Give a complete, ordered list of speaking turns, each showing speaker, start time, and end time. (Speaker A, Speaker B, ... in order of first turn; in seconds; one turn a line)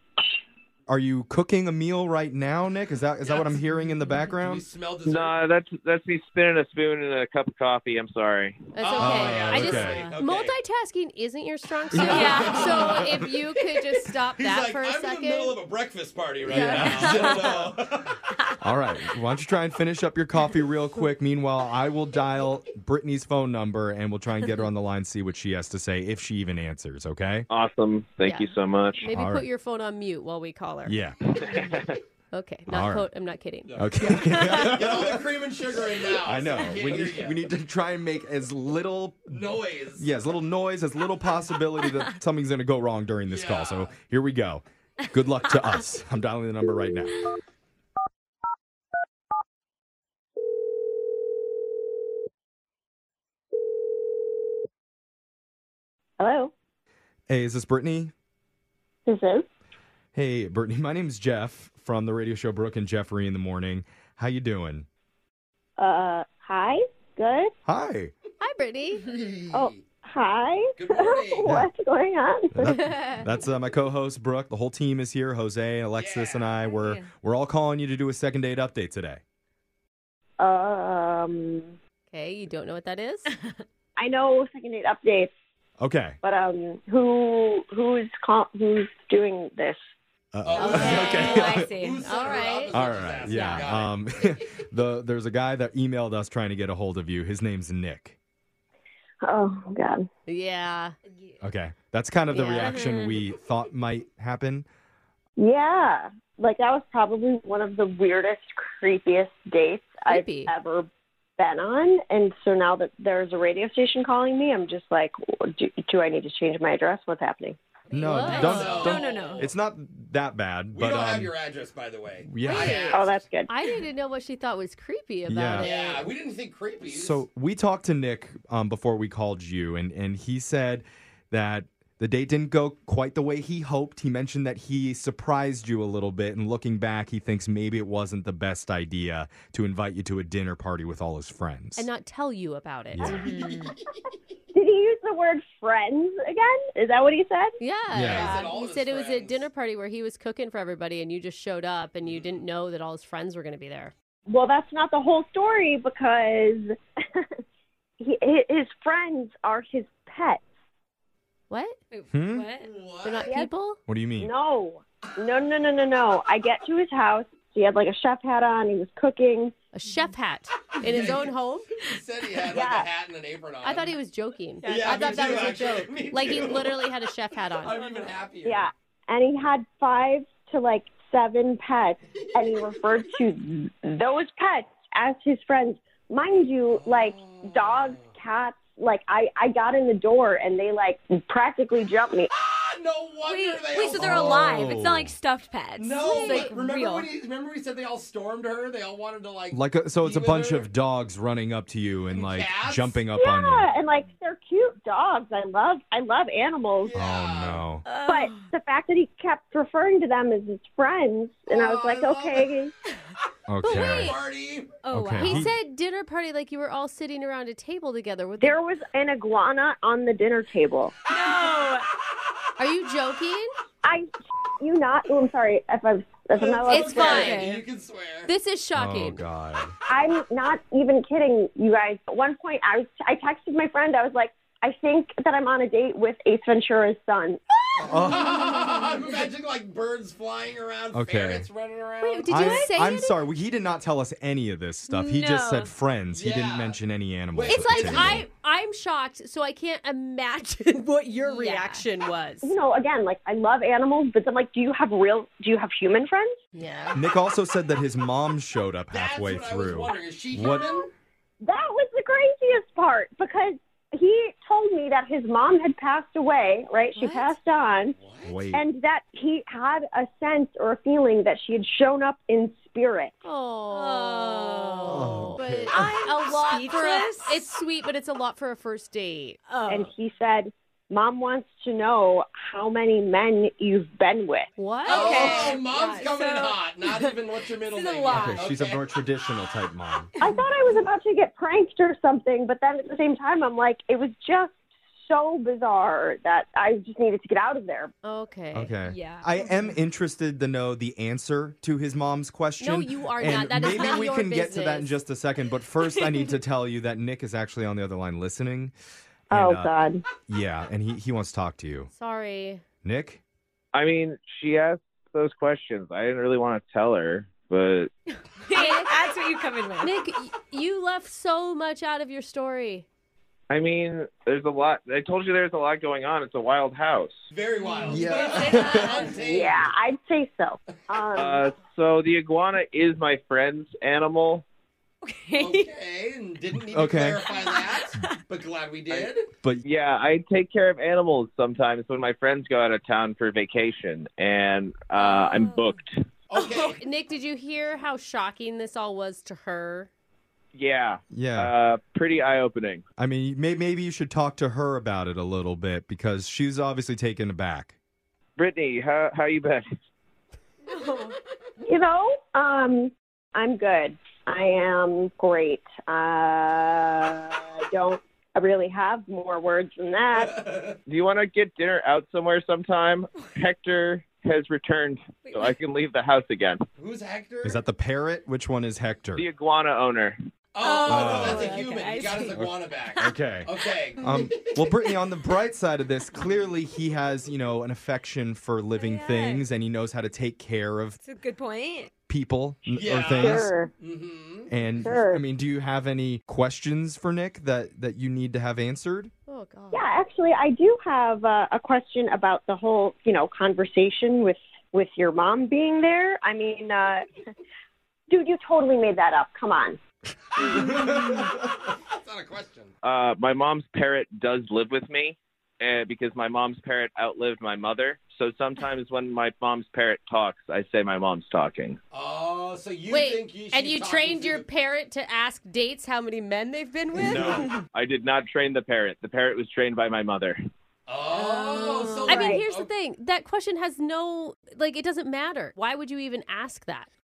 Speaker A: 0.9-4.6
Speaker B: 3.3-3.6
Speaker B: 4.4-5.4
Speaker C: 5.1-8.7
Speaker D: 8.7-15.6
Speaker B: 8.8-10.5
Speaker A: 9.0-10.1
Speaker E: 9.8-10.1
Speaker A: 11.9-13.3
Speaker B: 11.9-13.2
Speaker E: 12.0-13.0
Speaker B: 14.4-18.2
Speaker A: 16.5-17.6
Speaker D: 16.5-17.1
Speaker E: 16.6-17.6
Speaker A: 18.6-27.5
Speaker C: 27.5-29.1
Speaker D: 28.2-31.0
Speaker A: 29.1-29.5
Speaker A: 30.9-31.2
Speaker C: 31.5-32.0
Speaker D: 32.3-34.2
Speaker A: 32.7-33.1
Speaker B: 33.7-37.5
Speaker A: 33.8-35.2
Speaker A: 36.2-47.2
Speaker B: 39.3-40.1
Speaker B: 43.3-43.9
Speaker F: 56.2-56.5
Speaker A: 57.3-58.1
Speaker F: 59.1-59.5
Speaker A: 60.1-64.9
Speaker F: 65.8-67.5
Speaker A: 67.7-68.1
Speaker D: 68.4-69.0
Speaker B: 69.5-69.9
Speaker F: 69.5-72.6
Speaker B: 70.8-71.5
Speaker A: 72.5-79.2
Speaker D: 72.7-73.2
Speaker B: 76.0-76.7
Speaker E: 76.7-77.1
Speaker F: 80.4-81.7
Speaker D: 82.1-83.3
Speaker F: 84.0-85.3
Speaker A: 85.8-86.2
Speaker F: 86.2-89.8
Speaker A: 90.3-91.7
Speaker B: 90.5-94.4
Speaker D: 90.5-93.0
Speaker E: 90.6-92.1
Speaker A: 92.7-98.2
Speaker E: 93.2-93.7
Speaker F: 99.2-100.1
Speaker D: 100.3-101.0
Speaker E: 101.1-101.4
Speaker A: 101.4-104.7
Speaker D: 102.3-102.8
Speaker E: 102.5-103.2
Speaker F: 105.4-117.6
Speaker D: 110.1-110.5
Speaker E: 117.9-119.4
Speaker A: 117.9-121.3
Speaker D: 118.0-118.9
Speaker B: 118.1-119.5
Speaker B: 120.7-123.2
Speaker A: 122.2-123.0
Speaker E: 122.5-122.8
Speaker F: 122.9-123.5
Speaker D: 123.5-126.1
Speaker A: 125.3-125.7
Speaker B: 125.5-127.2
Speaker A: 126.9-141.9
Speaker D: 141.8-143.4
Speaker A: 142.9-143.3
Speaker E: 143.0-143.8
Speaker B: 143.5-143.7
Speaker F: 144.5-147.6
Speaker D: 147.6-153.9
Speaker A: 147.9-148.3
Speaker B: 148.0-149.5
Speaker E: 148.2-148.5
Speaker F: 154.3-157.2
Speaker F: 158.0-160.4
Speaker D: 161.5-161.8
Speaker E: 161.9-162.7
Speaker A: 162.1-162.5
Speaker B: 162.6-163.4
Speaker D: 163.0-163.8
Speaker A: 163.9-164.3
Speaker F: 164.2-169.5
Speaker D: 169.7-171.7
Speaker B: 170.8-173.9
Speaker F: 172.4-172.9
Speaker D: 173.6-177.8
Speaker E: 174.6-175.6
Speaker B: 174.7-176.9
Speaker B: 177.6-178.7
Speaker E: 177.7-178.2
Speaker F: 178.4-192.3
Speaker B: 182.2-183.1
Speaker B: 186.7-188.1
Speaker B: 192.3-194.7
Speaker E: 193.2-197.1
Speaker A: 193.9-195.1
Speaker B: 195.8-200.7
Speaker D: 196.2-196.5
Speaker A: 199.5-203.7
Speaker B: 202.1-203.1
Speaker F: 203.2-207.0
Speaker B: 206.8-207.6
Speaker A: 206.9-207.9
Speaker E: 207.8-208.5
Speaker F: 208.0-212.7
Speaker B: 211.5-212.5
Speaker A: 213.5-214.2
Speaker D: 213.6-214.2
Speaker B: 213.6-214.7
Speaker E: 214.8-215.5
Speaker A: 214.9-215.5
Speaker D: 215.2-218.6
Speaker F: 218.4-220.9
Speaker E: 221.1-221.9
Speaker D: 222.6-223.5
Speaker F: 223.8-227.3
Speaker B: 226.3-228.3
Speaker D: 226.7-227.5
Speaker E: 227.0-227.6
Speaker D: 228.3-229.3
Speaker A: 228.8-229.8
Speaker F: 229.9-237.4
Speaker B: 237.8-242.6
Speaker A: 237.8-238.3
Speaker E: 238.5-239.0
Speaker A: 240.9-241.5
Speaker D: 242.0-243.2
Speaker A: 242.3-248.3
Speaker E: 244.9-245.7
Speaker B: 246.1-246.8
Speaker B: 247.3-248.3
Speaker D: 247.5-252.5
Speaker E: 251.2-251.8
Speaker F: 252.4-256.4
Speaker D: 256.6-257.0
Speaker A: 256.9-260.7
Speaker B: 258.9-260.9
Speaker F: 261.4-268.0
Speaker E: 267.0-267.3
Speaker B: 268.0-268.4
Speaker A: 268.2-268.6
Speaker F: 268.5-273.2
Speaker D: 273.2-279.4
Speaker E: 273.7-277.5
Speaker A: 274.9-275.7
Speaker E: 279.5-279.9
Speaker F: 279.7-284.5
Speaker D: 284.6-285.8
Speaker E: 284.8-288.4
Speaker B: 284.9-288.8
Speaker A: 288.1-290.1
Speaker E: 290.2-290.5
Speaker F: 290.2-297.9
Speaker D: 298.0-298.7
Speaker A: 298.5-308.7
Speaker E: 298.9-299.8
Speaker D: 302.6-305.0
Speaker A: 309.3-311.9
Speaker F: 309.3-310.0
Speaker D: 311.9-312.6
Speaker A: 312.8-313.2
Speaker C: 313.7-317.9
Speaker E: 318.4-319.9
Speaker D: 318.5-319.1
Speaker D: 319.8-322.9
Speaker C: 323.5-327.3
Speaker B: 327.3-329.7
Speaker E: 327.6-329.2
Speaker A: 327.9-329.0
Speaker F: 329.2-331.4
Speaker C: 331.1-334.4
Speaker E: 335.0-335.7
Speaker B: 335.4-339.3
Speaker A: 336.7-337.2
Speaker E: 337.3-338.2
Speaker C: 339.6-346.0
Speaker E: 345.0-345.7
Speaker B: 346.3-346.8
Speaker E: 346.4-346.8
Speaker D: 346.7-349.9
Speaker C: 350.6-352.8
Speaker A: 351.1-351.5
Speaker A: 353.0-357.8
Speaker C: 358.4-359.7
Speaker E: 360.7-361.1
Speaker F: 361.6-370.5
Speaker B: 370.1-370.8
Speaker C: 370.9-376.6
Speaker E: 375.2-375.6
Speaker B: 376.8-377.6
Speaker A: 377.4-379.2
Speaker C: 379.2-380.2
Speaker B: 380.5-384.7
Speaker E: 380.6-383.1
Speaker A: 380.9-381.6
Speaker A: 382.3-383.5
Speaker A: 384.0-391.0
Speaker E: 388.8-389.5
Speaker E: 391.0-391.9
Speaker A: 392.1-393.5
Speaker B: 392.7-394.9
Speaker F: 393.2-393.7
Speaker A: 394.5-399.1
Speaker F: 394.8-395.2
Speaker D: 399.3-399.9
Speaker F: 399.7-407.1
Speaker F: 408.1-409.8
Speaker B: 410.4-412.7
Speaker C: 412.8-421.8
Speaker B: 421.9-424.4
Speaker D: 422.9-427.6
Speaker B: 427.0-427.6
Speaker A: 427.0-427.5
Speaker C: 427.7-430.4
Speaker B: 430.9-432.7
Speaker D: 431.1-436.9
Speaker E: 431.2-432.4